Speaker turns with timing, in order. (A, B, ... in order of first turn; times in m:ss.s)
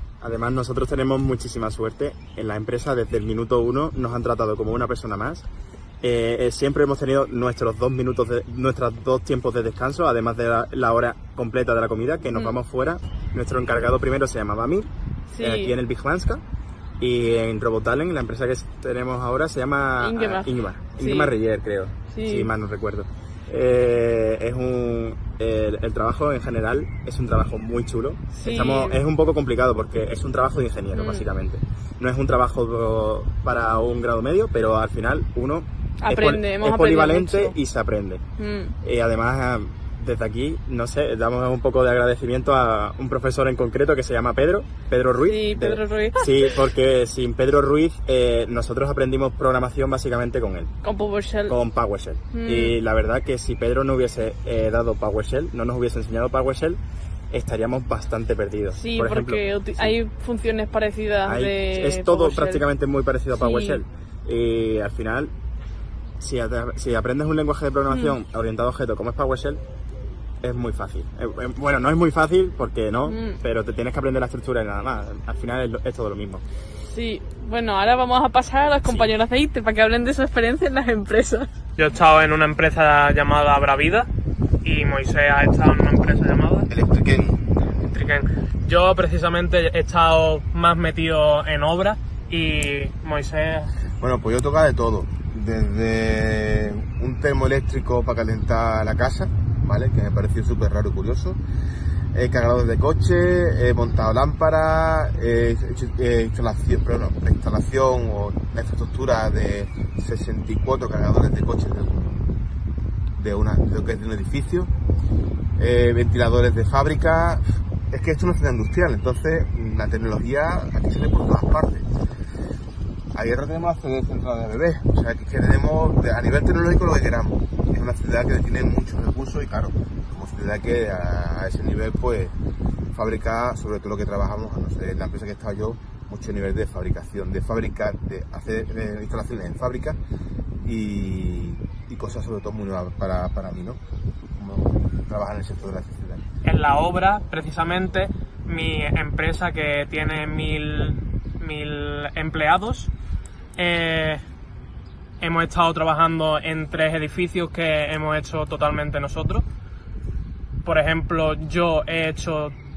0:00.2-0:05.4 A
0:06.0-0:14.9 A
0:12.3-0:12.6 B
0:15.3-0:15.8 B
0:15.4-0:16.4 A
0:17.0-0:38.2 A
0:20.0-0:21.3 B
0:22.1-0:22.5 B
0:28.3-0:29.0 B
0:30.9-0:31.2 B
0:36.0-0:37.6 B
0:38.4-0:38.7 B
0:38.8-0:50.7 A
0:45.2-0:46.5 B
0:50.8-0:51.5 B
0:51.5-0:56.8 A
0:52.3-0:52.8 B
0:57.3-1:00.0 A
0:58.7-1:02.6 B
1:01.2-1:05.3 A
1:03.3-1:03.8 B
1:06.2-1:09.6 A
1:07.9-1:08.2 B
1:10.4-1:16.4 A
1:13.0-1:13.4 B
1:16.8-1:21.5 B
1:18.8-1:19.1 A
1:21.8-1:24.1 C
1:24.6-1:26.7 C
1:26.7-1:27.4 D
1:27.8-1:33.7 C
1:34.0-1:41.4 D
1:42.1-1:52.3 D
1:53.2-1:54.7 D
1:55.6-2:01.8 D
2:03.1-2:12.3 D
2:12.9-2:20.0 D
2:20.6-2:23.8 D
2:24.4-2:26.2 D
2:26.4-2:32.9 C
2:33.6-2:34.2 C
2:35.2-2:39.4 C
2:40.6-2:42.5 C